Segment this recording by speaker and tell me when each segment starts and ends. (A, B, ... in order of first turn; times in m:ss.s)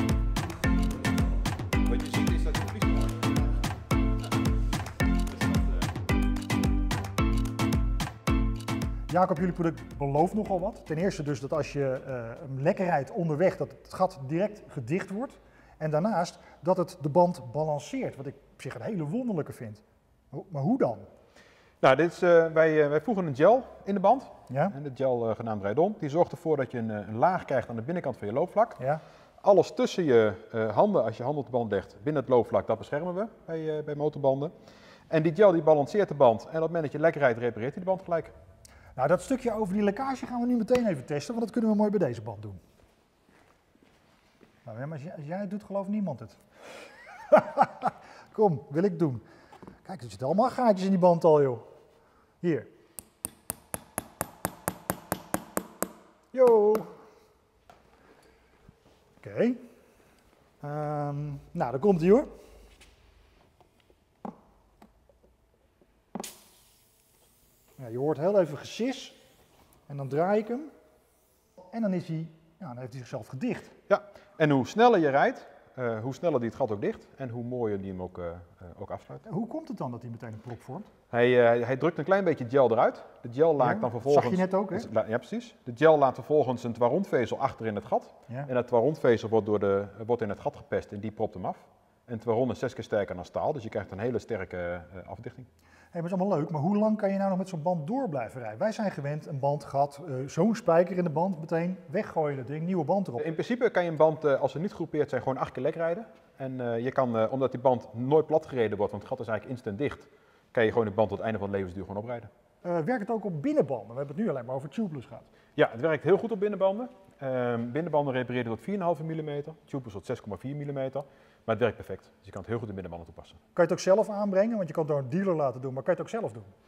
0:01.9-0:03.5 A
0:05.3-0:05.9 A
0:09.1-0:21.1 B
0:21.8-0:28.8 A
0:24.5-0:24.8 B
0:29.4-0:34.5 A
0:35.1-0:38.3 A
0:39.0-0:42.6 B
0:44.6-0:46.4 B
0:47.3-0:49.2 B
0:49.8-0:51.7 B
0:52.4-0:52.7 B
0:56.3-0:56.9 B
0:59.2-0:59.6 B
1:00.6-1:02.3 B
1:07.8-1:09.2 B
1:09.9-1:10.7 B
1:11.7-1:13.7 B
1:13.9-1:19.2 A
1:19.3-1:20.9 B
1:21.1-1:35.5 A
1:23.6-1:24.9 B
1:35.9-1:43.2 B
1:43.2-1:52.3 A
1:52.6-1:55.3 B
1:55.6-2:03.4 A
2:03.6-2:06.5 B